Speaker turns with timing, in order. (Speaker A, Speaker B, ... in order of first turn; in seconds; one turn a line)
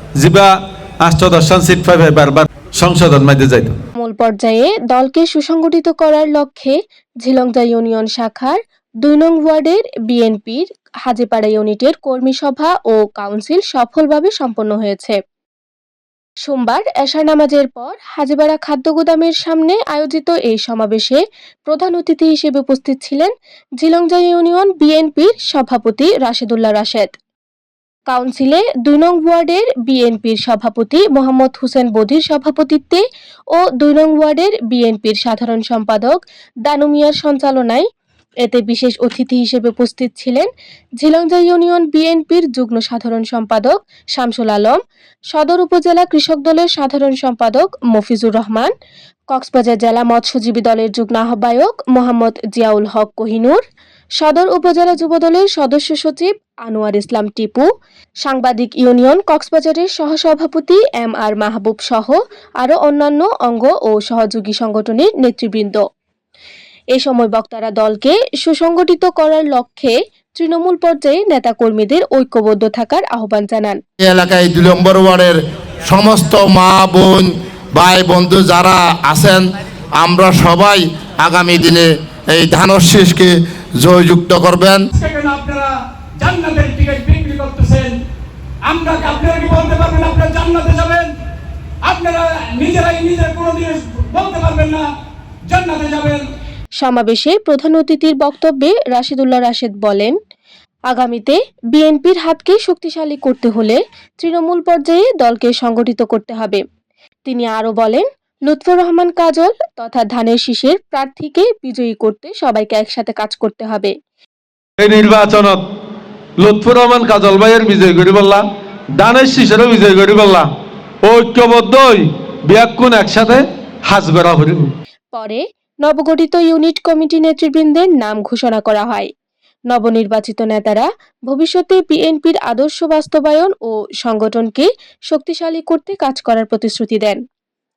Speaker A: 0.2-3.8
Speaker B: 4.0-15.2
Speaker B: 16.4-27.1
Speaker B: 28.1-37.9
Speaker B: 38.4-44.8
Speaker B: 45.3-48.7
Speaker B: 49.3-53.6
Speaker B: 54.2-57.7
Speaker B: 58.2-65.8
Speaker B: 66.9-73.8
Speaker C: 74.0-79.5
Speaker C: 80.0-84.8
Speaker D: 84.9-88.0
Speaker D: 88.6-91.1
Speaker D: 91.8-94.9
Speaker D: 95.5-96.2
Speaker B: 96.8-100.2
Speaker B: 100.9-106.6
Speaker B: 107.2-114.0
Speaker A: 114.8-115.6
Speaker A: 116.4-120.5
Speaker A: 121.0-124.7
Speaker B: 125.1-129.1
Speaker B: 129.7-137.2